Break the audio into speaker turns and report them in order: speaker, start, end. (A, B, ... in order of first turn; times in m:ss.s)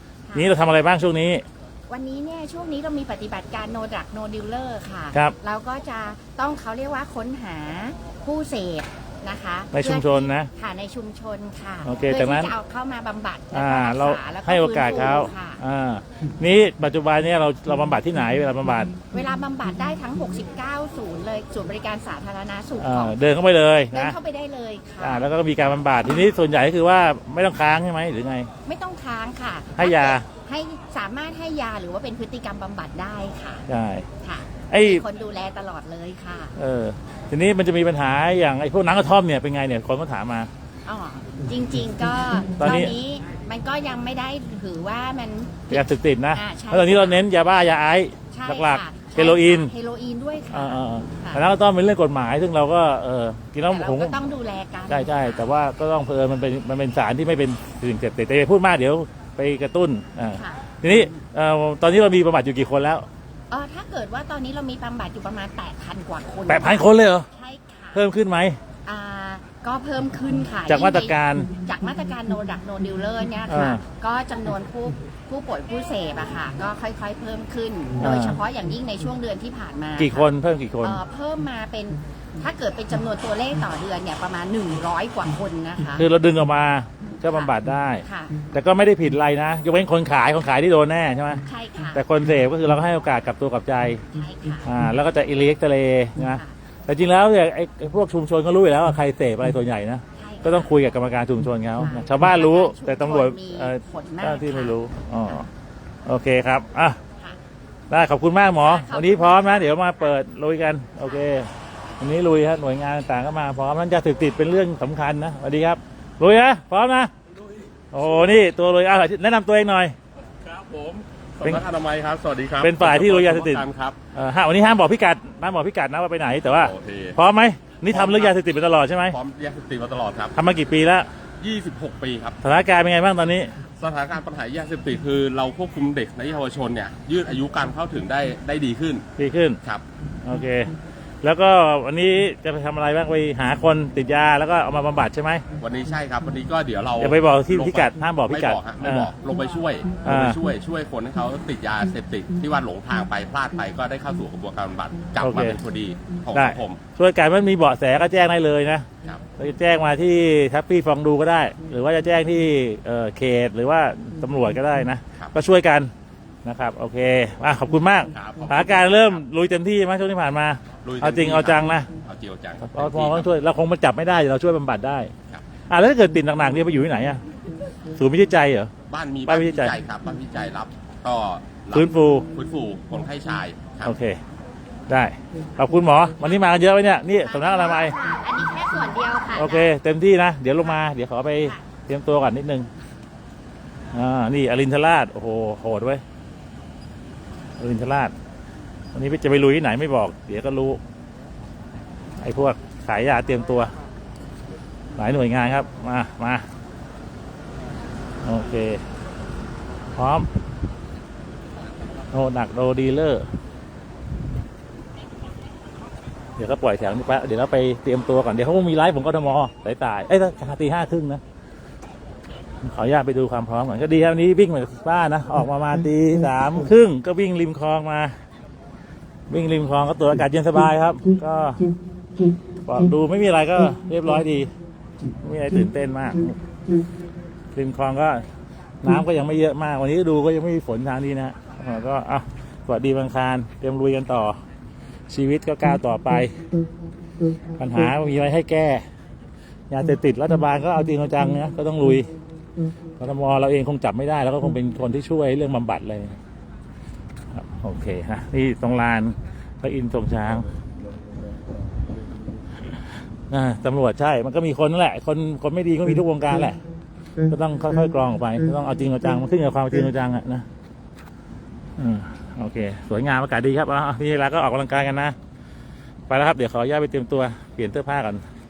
0:00.3-0:01.4 A
0:01.9-0:15.6 B
0:09.7-0:10.5 A
0:11.8-0:12.5 A
0:13.5-0:19.0 A
0:19.1-0:23.2 B
0:22.8-0:24.2 A
0:23.9-0:25.3 B
0:25.0-0:28.5 A
0:28.6-0:33.7 B
0:29.8-0:30.3 A
0:33.7-0:34.1 A
0:34.2-0:36.6 B
0:34.7-0:35.0 A
0:36.6-0:40.5 A
0:40.8-0:47.2 B
0:42.6-0:42.9 A
0:45.7-0:49.7 A
0:48.3-0:51.4 B
0:50.5-0:54.2 A
0:53.7-0:55.5 B
0:54.9-1:03.0 A
1:00.3-1:01.1 B
1:03.5-1:08.0 B
1:06.5-1:07.3 A
1:07.9-1:08.6 A
1:08.8-1:20.3 B
1:10.7-1:11.5 A
1:13.5-1:13.8 A
1:18.0-1:18.4 A
1:20.0-1:21.0 A
1:20.8-1:26.1 B
1:26.0-1:31.4 A
1:27.2-1:28.4 B
1:31.4-1:32.0 B
1:31.9-1:34.0 A
1:34.1-1:34.7 B
1:34.6-1:45.5 A
1:36.2-1:36.5 B
1:40.1-1:40.7 B
1:41.8-1:44.8 B
1:46.0-1:47.0 A
1:47.9-1:57.1 A
1:48.5-1:50.1 B
1:57.9-1:59.9 A
2:00.4-2:04.0 C
2:02.6-2:03.6 A
2:04.1-2:09.2 A
2:06.5-2:07.2 C
2:07.9-2:08.3 C
2:09.1-2:10.3 C
2:10.3-2:11.1 A
2:11.4-2:12.4 C
2:12.4-2:13.5 A
2:13.8-2:19.0 C
2:19.2-2:19.6 A
2:20.2-2:25.4 A
2:25.6-2:36.8 C
2:27.0-2:29.1 A
2:30.0-2:30.4 A
2:35.2-2:35.6 A
2:36.3-2:38.9 A
2:39.4-2:45.9 A
2:46.4-2:51.9 A
2:48.1-2:49.0 C
2:50.8-2:53.3 C
2:52.6-2:55.1 A
2:55.7-2:57.2 A
2:57.9-2:58.7 A
2:58.9-3:03.9 C
2:59.3-2:59.8 A
3:01.7-3:02.2 A
3:03.8-3:04.2 A
3:04.9-3:08.0 A
3:06.2-3:09.7 B
3:09.4-3:12.7 A
3:13.9-3:16.0 A
3:17.6-3:18.1 A
3:18.9-3:20.8 A
3:22.2-3:23.7 A
3:25.0-3:26.4 A
3:28.2-3:28.8 A
3:30.0-3:30.3 A
3:32.1-3:33.2 A
3:36.4-3:41.2 A
3:42.6-3:48.1 A
3:49.3-3:51.7 A
3:52.6-3:54.5 A
3:55.2-3:56.4 A
3:57.5-3:58.2 A
3:58.8-4:04.4 A
4:05.1-4:06.4 A
4:07.6-4:08.8 A
4:09.7-4:12.1 A
4:13.0-4:16.2 A
4:17.3-4:20.4 A
4:23.3-4:26.6 A
4:27.3-4:30.4 A
4:31.8-4:35.2 A
4:36.1-4:38.2 A